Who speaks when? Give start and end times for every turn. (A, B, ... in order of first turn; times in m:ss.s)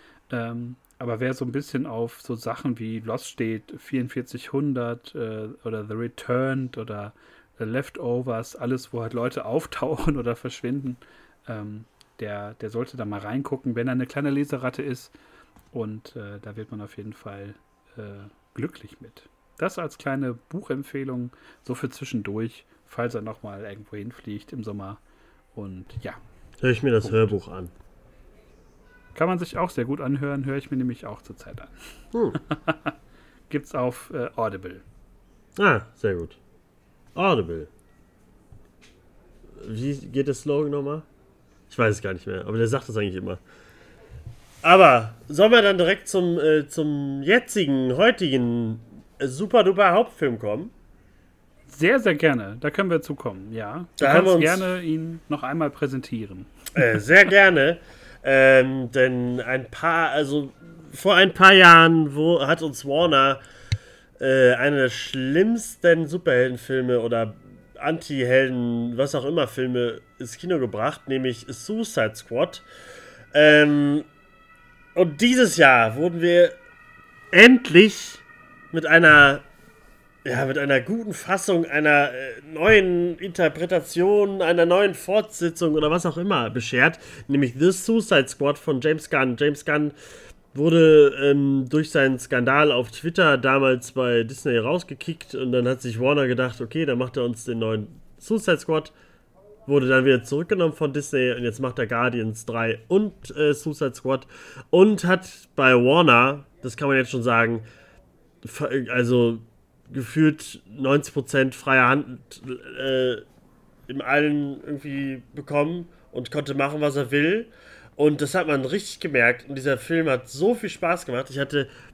0:00.3-0:15.1 A
0:15.7-0:25.0 A
0:25.6-0:26.2 A
0:26.6-0:27.7 B
0:27.0-0:27.3 A
0:29.2-0:31.7 A
0:32.3-0:33.0 A
0:33.5-0:34.8 A
0:35.6-0:36.4 B
0:37.2-0:37.7 B
0:39.6-0:41.1 B
0:41.7-0:43.4 B
0:44.6-0:50.7 B
0:51.7-0:56.5 A
0:54.0-0:54.7 B
0:56.8-1:03.4 B
1:04.2-1:12.6 B
1:13.3-1:14.1 B
1:15.0-1:16.6 B
1:17.3-1:19.5 B
1:20.2-1:30.0 B
1:30.5-1:38.9 B
1:39.7-1:47.6 B
1:48.4-1:53.2 B
1:53.9-2:01.7 B